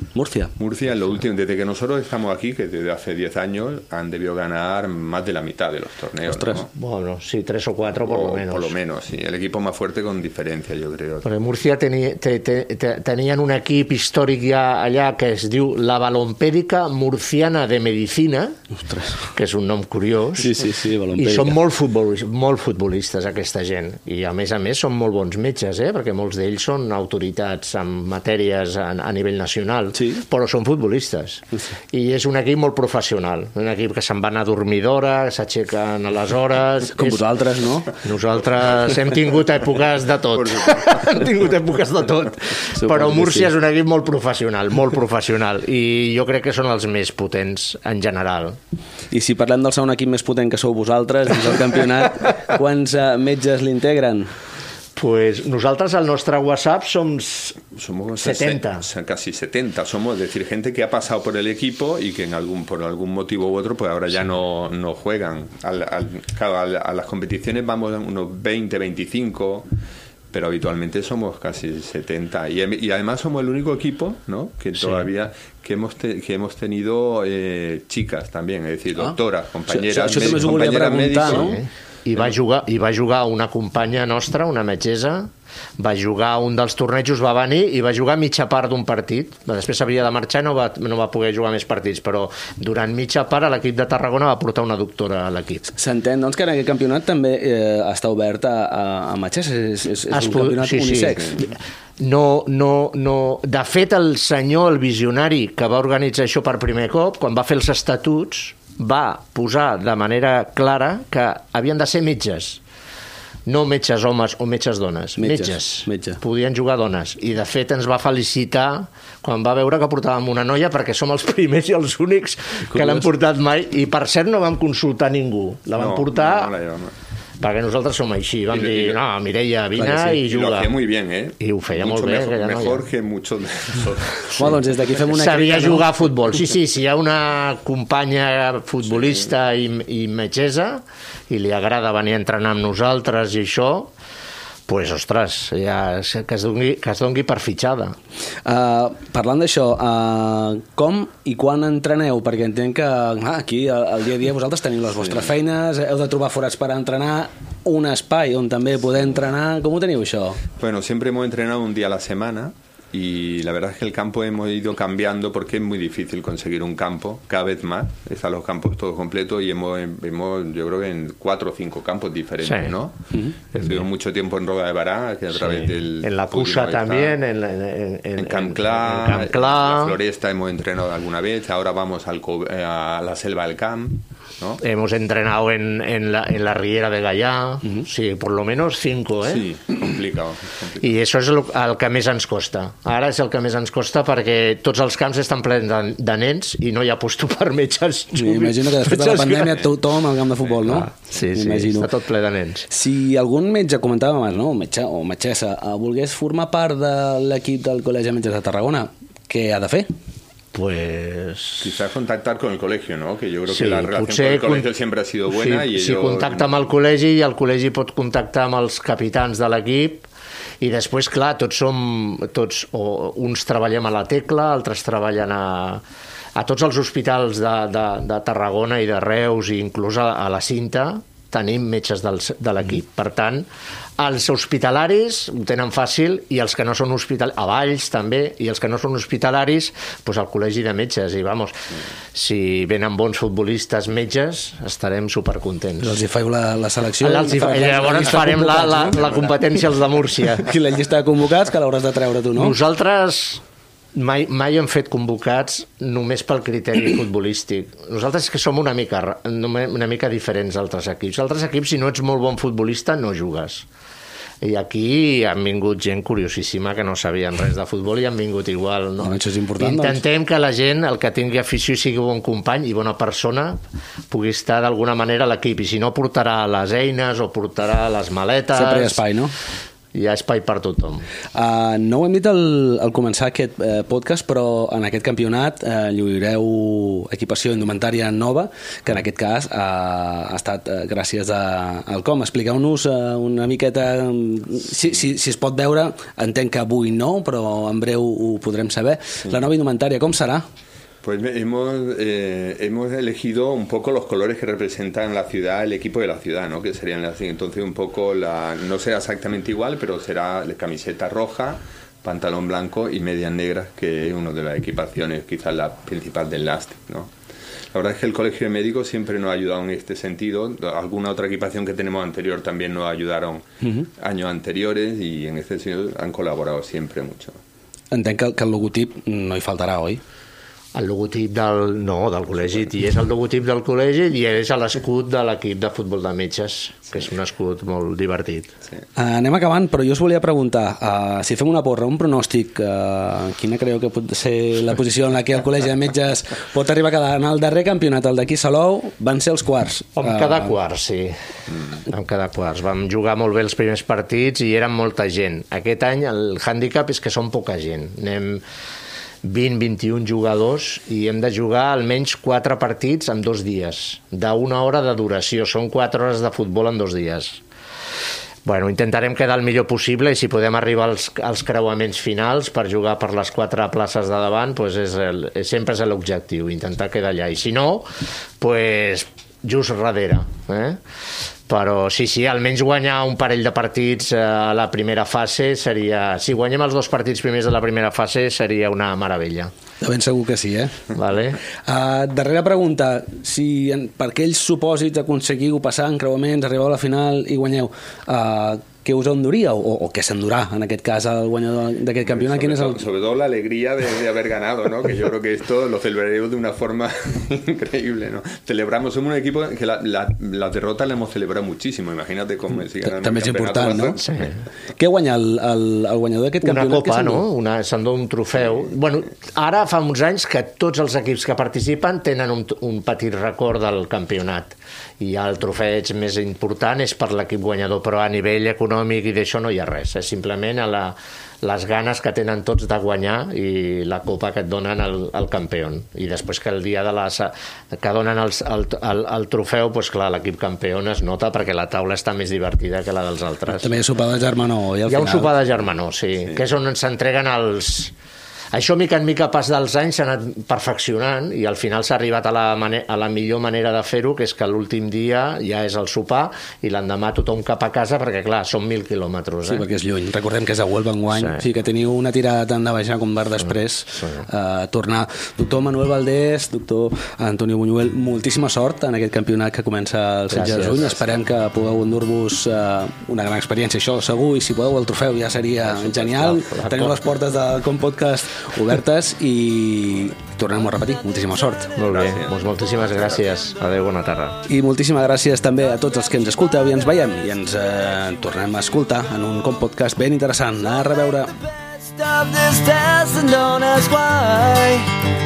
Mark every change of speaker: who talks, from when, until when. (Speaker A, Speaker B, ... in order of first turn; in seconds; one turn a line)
Speaker A: 0.1-0.5
Speaker B: 0.6-6.7
Speaker A: 6.3-6.6
Speaker C: 6.8-8.8
Speaker B: 8.1-11.3
Speaker C: 11.2-18.5
Speaker A: 18.9-19.2
Speaker C: 19.3-37.2
Speaker A: 20.4-21.6
Speaker A: 29.9-30.2
Speaker A: 36.9-37.9
Speaker C: 38.0-48.6
Speaker B: 40.4-40.8
Speaker A: 42.7-43.5
Speaker A: 49.1-54.3
Speaker C: 55.0-57.6
Speaker B: 57.7-69.7
Speaker C: 58.2-58.9
Speaker B: 70.3-81.6
Speaker A: 79.7-81.6
Speaker C: 81.2-95.7
Speaker A: 95.7-101.4
Speaker C: 100.1-112.6
Speaker C: 113.5-126.5
Speaker A: 115.2-116.2
Speaker A: 122.7-123.1
Speaker B: 125.8-126.9
Speaker C: 127.4-130.7
Speaker B: 128.5-129.0
Speaker A: 129.8-130.2
Speaker B: 130.2-134.6
Speaker C: 131.4-132.9
Speaker A: 134.4-135.9
Speaker C: 135.1-143.9
Speaker C: 144.7-148.0
Speaker A: 148.4-160.4
Speaker B: 160.6-177.2
Speaker C: 172.4-172.8
Speaker C: 173.6-173.9
Speaker C: 175.3-180.0
Speaker B: 178.2-184.6
Speaker C: 184.6-189.5
Speaker B: 189.2-190.9
Speaker C: 190.8-199.6
Speaker A: 198.2-201.9
Speaker C: 200.7-202.7
Speaker A: 202.7-209.9
Speaker C: 210.5-211.8
Speaker B: 211.6-216.7
Speaker C: 213.5-214.7
Speaker C: 215.3-220.1
Speaker C: 220.6-225.8
Speaker C: 226.4-233.5
Speaker C: 234.0-245.9
Speaker A: 245.8-249.1
Speaker C: 247.0-250.5
Speaker A: 250.3-252.6
Speaker C: 252.3-253.4
Speaker C: 253.9-263.7
Speaker C: 264.4-279.0
Speaker A: 269.0-270.0
Speaker A: 278.5-279.3
Speaker C: 279.9-281.1
Speaker A: 281.3-300.4
Speaker B: 301.0-317.1
Speaker B: 317.7-323.4
Speaker B: 324.0-327.4
Speaker A: 327.9-330.0
Speaker C: 330.7-338.6
Speaker A: 339.0-350.5
Speaker C: 350.0-351.1
Speaker C: 351.7-358.4
Speaker C: 359.2-367.4
Speaker C: 368.4-377.9
Speaker C: 378.4-380.8
Speaker C: 381.5-389.5
Speaker A: 389.8-390.8
Speaker C: 390.9-391.4
Speaker A: 391.6-402.8
Speaker B: 402.1-414.0
Speaker A: 412.8-414.0
Speaker C: 414.0-414.4
Speaker A: 414.8-417.2
Speaker C: 416.4-443.7
Speaker A: 443.6-445.4
Speaker C: 444.9-447.9
Speaker C: 448.5-459.7
Speaker A: 459.4-481.7
Speaker C: 461.1-461.4
Speaker C: 463.4-464.3
Speaker C: 470.3-471.1
Speaker C: 475.6-477.0
Speaker C: 481.8-484.4
Speaker B: 481.8-483.3
Speaker A: 484.5-494.9